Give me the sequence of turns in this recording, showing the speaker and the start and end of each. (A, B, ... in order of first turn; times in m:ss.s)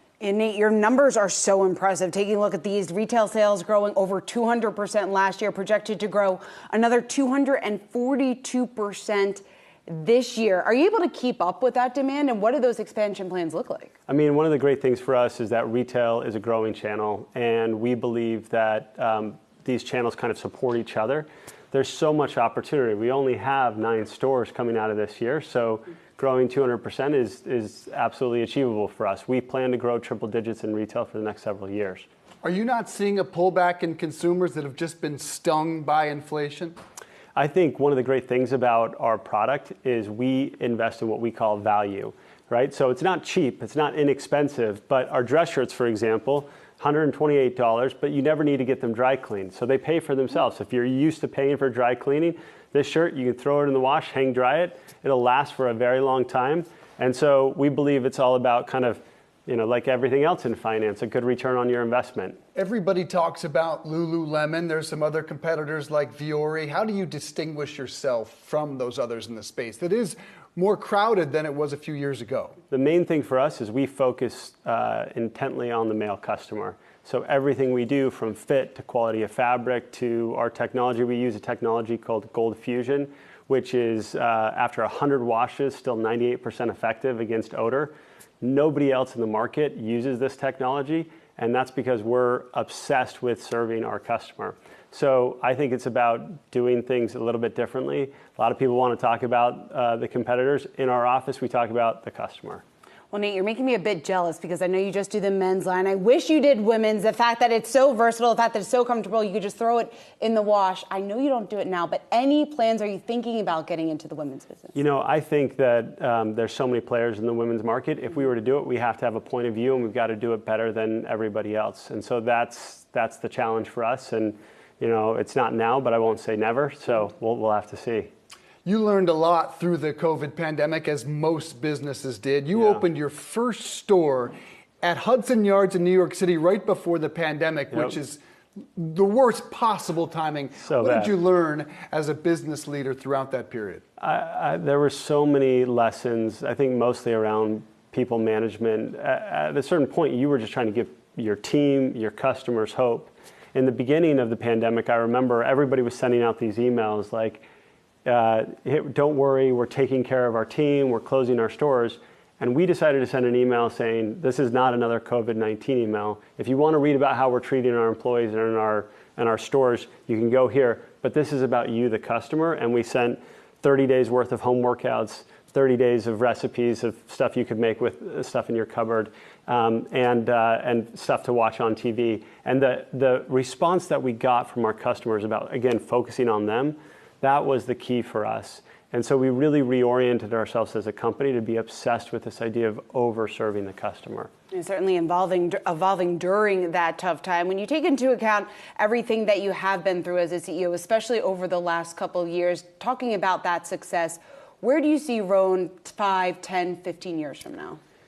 0:00.2-0:13.9 A
0:14.1-0:32.0 B
0:32.4-0:36.8 C
0:37.4-1:02.4 B
1:02.6-1:12.6 C
1:12.7-1:42.6 B
1:43.1-1:54.8 A
1:54.8-2:08.1 B
2:08.6-2:18.2 C
2:12.6-2:12.8 B
2:18.8-2:23.8 C
2:20.6-2:21.2 B
2:24.0-2:37.4 B
2:38.1-3:14.3 B
3:14.5-3:27.8 A